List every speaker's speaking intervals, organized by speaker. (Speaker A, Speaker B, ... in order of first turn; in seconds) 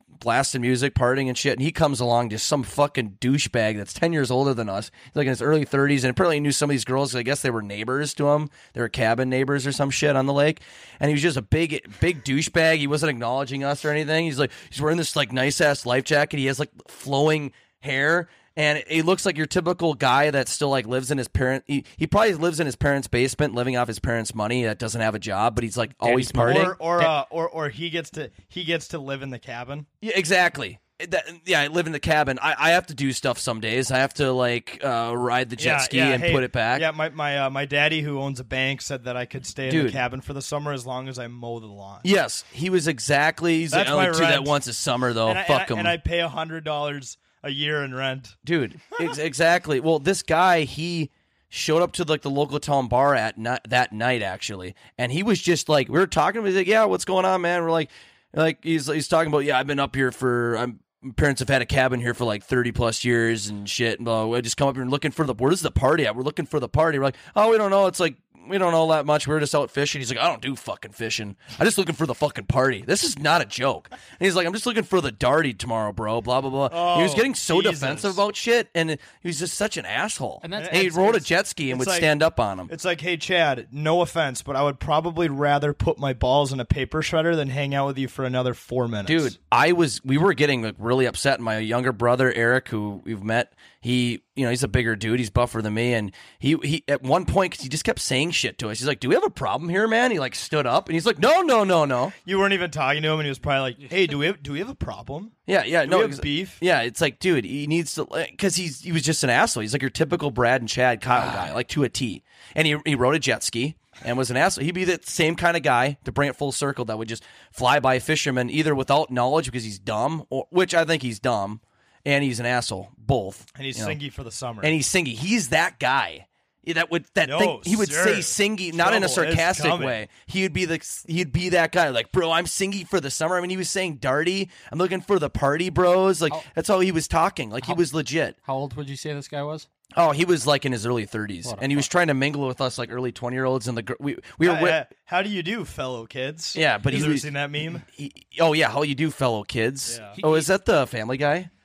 Speaker A: 0.2-26.7, 30.0-36.9, 39.7-40.0, 42.0-45.9, 48.4-82.7, 89.0-102.1, 105.5-124.0, 124.6-138.3, 139.9-144.8, 146.5-147.3, 147.9-151.5
Speaker B: 26.0-27.1, 80.4-81.2, 138.4-139.7, 141.4-141.9, 150.1-150.5
Speaker C: 26.4-29.9, 35.6-42.0, 43.7-44.5, 45.2-48.4, 76.7-78.2, 80.5-82.1, 82.7-89.3, 102.2-105.3, 105.8-106.6, 123.5-124.7, 127.2-130.0, 144.4-147.8, 149.9-150.2